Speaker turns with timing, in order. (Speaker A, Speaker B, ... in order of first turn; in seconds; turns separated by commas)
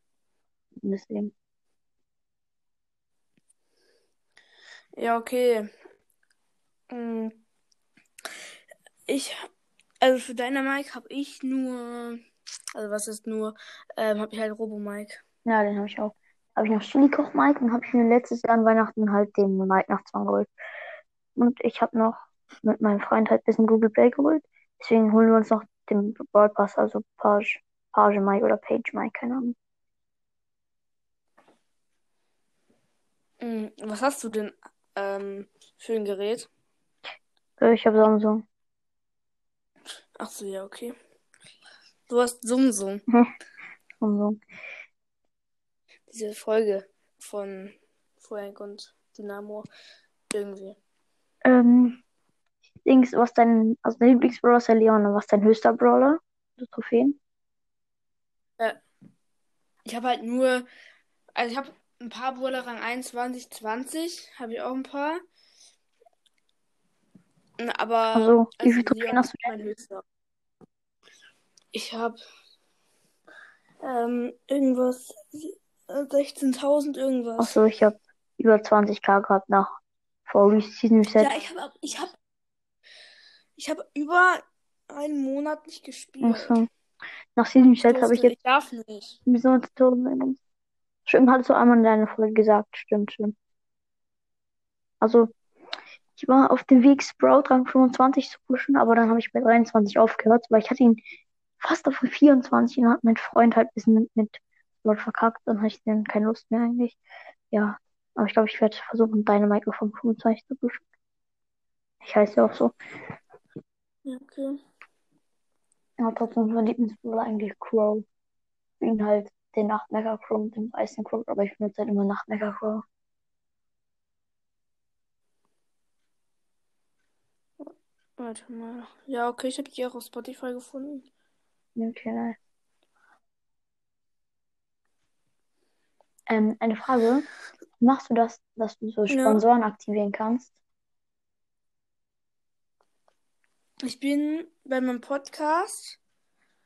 Speaker A: 0.8-1.3, Speaker B: 5.0-5.7, Speaker B: 6.9-7.4, Speaker B: 9.1-9.5, Speaker B: 10.0-12.2, Speaker B: 12.7-15.2, Speaker A: 15.4-20.5, Speaker A: 21.4-29.6, Speaker B: 33.4-36.5, Speaker A: 37.6-38.4, Speaker B: 40.2-40.9, Speaker B: 42.1-43.0, Speaker A: 44.0-44.4, Speaker B: 46.1-49.7, Speaker B: 50.3-50.8, Speaker A: 51.4-52.0, Speaker A: 52.8-57.2, Speaker B: 59.9-60.7, Speaker B: 61.3-65.2, Speaker B: 67.6-70.0, Speaker A: 68.1-69.5, Speaker B: 71.7-72.2, Speaker B: 73.8-77.6, Speaker A: 77.4-79.7, Speaker A: 80.3-81.4, Speaker B: 81.2-82.2, Speaker B: 83.6-86.6, Speaker A: 86.2-86.7, Speaker A: 87.3-88.3, Speaker B: 87.9-89.2, Speaker A: 89.2-90.4, Speaker A: 91.0-93.3, Speaker A: 95.0-95.3, Speaker A: 96.2-101.0, Speaker A: 101.6-107.0, Speaker A: 107.5-110.8, Speaker A: 112.0-112.7, Speaker B: 114.0-114.6, Speaker A: 116.0-118.0, Speaker A: 118.8-122.8, Speaker B: 127.6-131.1, Speaker A: 131.8-132.4, Speaker A: 136.3-137.3, Speaker A: 137.8-140.5, Speaker B: 139.1-139.4, Speaker B: 143.8-146.0